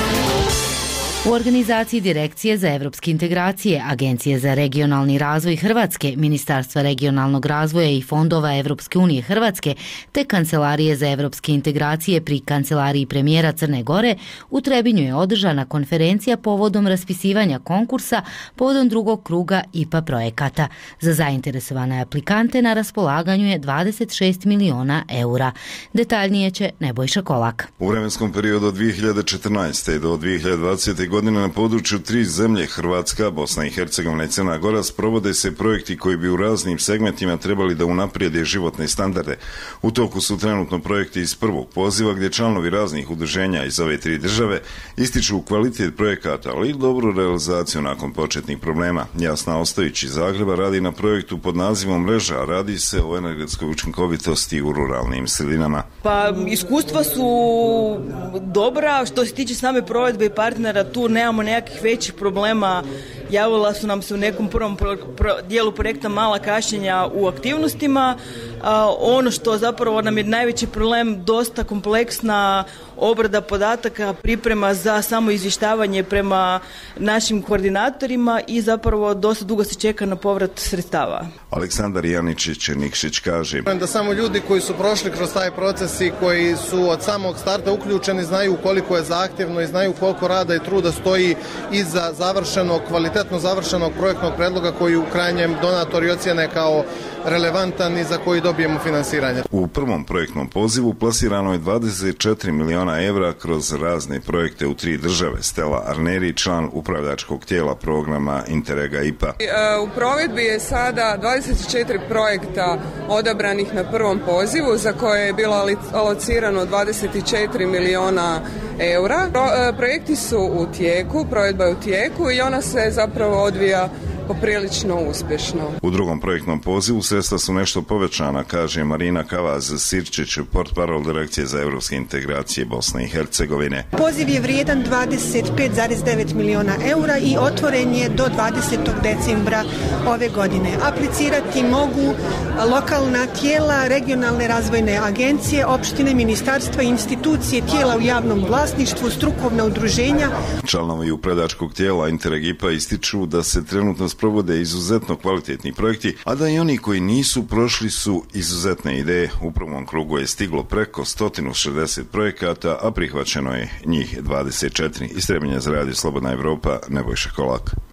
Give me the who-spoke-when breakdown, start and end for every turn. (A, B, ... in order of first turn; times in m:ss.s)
0:01.2-0:27.7 A
0:27.8-0:55.9 B
0:56.0-1:12.4 C
1:13.0-1:20.1 C
1:20.6-1:21.2 C
1:21.5-1:23.7 B
1:23.7-1:39.4 D
1:39.5-1:49.4 B
1:49.4-2:05.8 E
2:05.8-2:13.9 B
2:13.9-2:30.3 F
2:30.6-2:47.8 B